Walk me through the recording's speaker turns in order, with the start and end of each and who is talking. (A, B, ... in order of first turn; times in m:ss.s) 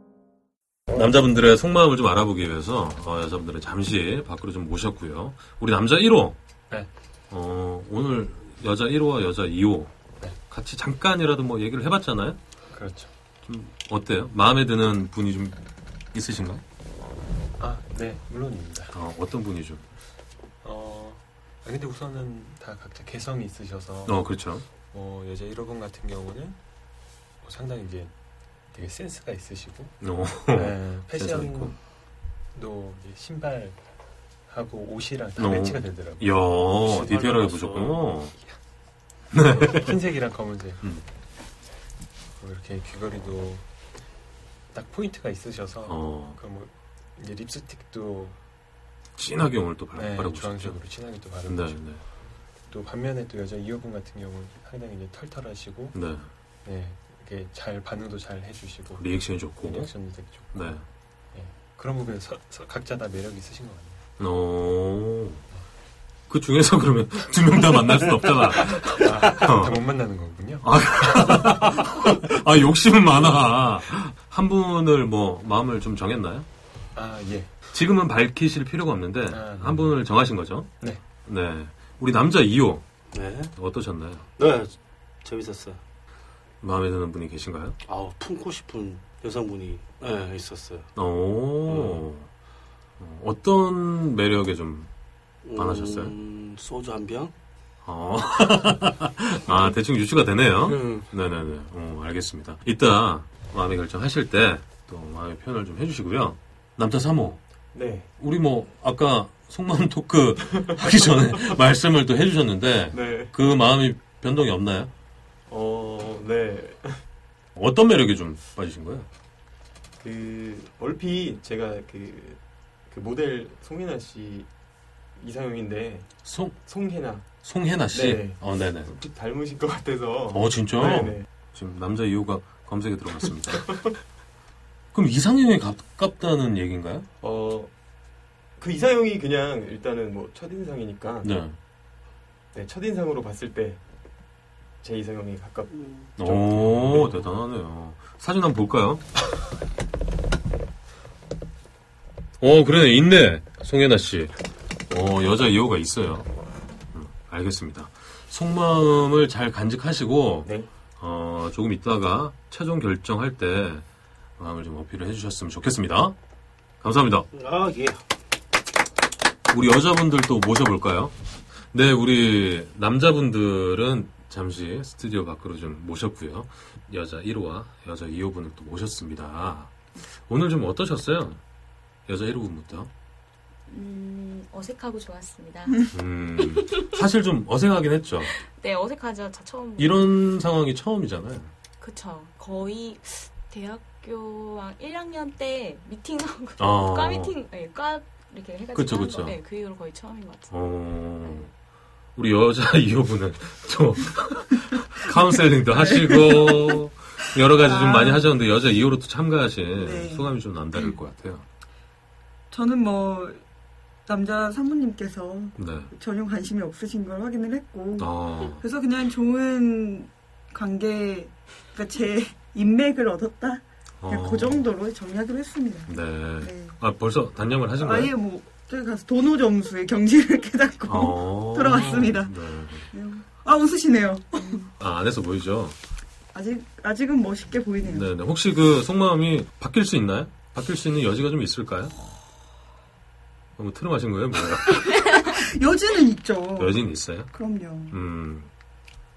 0:00.9-0:06.4 A
0:07.3-0:09.9 A
0:10.5-0:12.4 A
0:12.7-0:13.1 B
0:13.4-0:15.6 A
0:16.1-0:16.6 A
0:17.6-0:18.9 B
0:18.9-0:19.8 A
0:20.6-0:24.3 B
0:24.1-0:24.6 A
0:24.8-0:26.6 B
0:27.4-0:28.1 B
0:28.7-0:31.8 B
0:30.0-0:31.7 A
0:32.5-0:33.8 B
0:34.5-0:36.8 B
0:35.4-0:38.3 A
0:36.9-0:38.0 C
0:39.3-0:40.0 A
0:39.5-0:40.8 B
0:42.4-0:43.6 B
0:44.7-0:48.4 B
0:45.9-0:46.4 A
0:49.2-0:50.8 A
0:49.9-0:52.0 B
0:51.4-0:52.0 A
0:52.7-0:56.0 B
0:55.9-0:56.3 A
0:56.6-1:00.8 B
0:59.0-0:59.9 A
1:00.4-1:00.8 A
1:01.3-1:04.0 B
1:04.2-1:05.4 A
1:06.3-1:09.8 A
1:08.8-1:12.2 B
1:10.6-1:16.5 A
1:16.9-1:17.5 B
1:17.7-1:20.7 A
1:19.3-1:20.0 B
1:21.2-1:22.8 A
1:23.1-1:23.5 C
1:23.6-1:24.2 A
1:24.4-1:25.8 C
1:26.6-1:27.8 A
1:27.8-1:30.9 C
1:31.0-1:32.3 A
1:31.7-1:32.0 C
1:33.0-1:34.9 A
1:35.4-1:37.3 C
1:35.6-1:36.1 A
1:37.8-1:47.4 A
1:40.6-1:41.1 C
1:47.7-1:48.1 D
1:48.2-1:54.9 A
1:50.5-1:51.4 D
1:52.9-1:53.3 D
1:55.5-1:57.0 D
1:57.6-1:59.1 A
2:00.0-2:04.5 D
2:05.2-2:06.1 D
2:06.2-2:06.6 A
2:06.6-2:07.3 D
2:07.4-2:08.9 A
2:07.9-2:11.2 D
2:10.3-2:13.8 A
2:14.9-2:17.0 A
2:17.2-2:17.7 D
2:18.6-2:21.3 D
2:21.2-2:21.5 A
2:22.5-2:23.8 D
2:24.8-2:27.0 D
2:25.7-2:26.1 C
2:26.2-2:29.0 A
2:32.4-2:34.3 A
2:34.9-2:36.3 A
2:36.9-2:43.8 A
2:44.4-2:46.1 A
2:46.8-2:47.3 A
2:47.3-2:48.0 C
2:49.5-2:51.1 A
2:51.7-2:59.7 A
3:00.3-3:01.4 A
3:02.1-3:02.9 A
3:03.7-3:05.9 E
3:05.9-3:08.3 A
3:06.5-3:06.9 E
3:08.4-3:10.1 E
3:09.8-3:11.5 A
3:11.8-3:20.5 E
3:16.6-3:17.3 A
3:18.7-3:19.4 A
3:20.5-3:21.5 A
3:21.2-3:21.5 E
3:22.2-3:31.4 A
3:25.7-3:26.8 F
3:27.5-3:28.2 F
3:29.7-3:30.3 F
3:32.5-3:33.4 F
3:34.0-3:46.8 F
3:35.6-3:35.9 A
3:38.0-3:38.6 A
3:44.0-3:44.6 A
3:45.9-3:48.1 A
3:47.8-3:52.3 F
3:50.9-3:52.9 A
3:52.9-3:54.7 F
3:54.8-3:55.8 A
3:56.3-3:58.1 F
3:57.9-4:01.9 A
4:03.6-4:04.8 A
4:04.9-4:05.2 E
4:05.2-4:06.8 F
4:06.6-4:07.3 A
4:07.3-4:08.0 F
4:07.9-4:08.5 A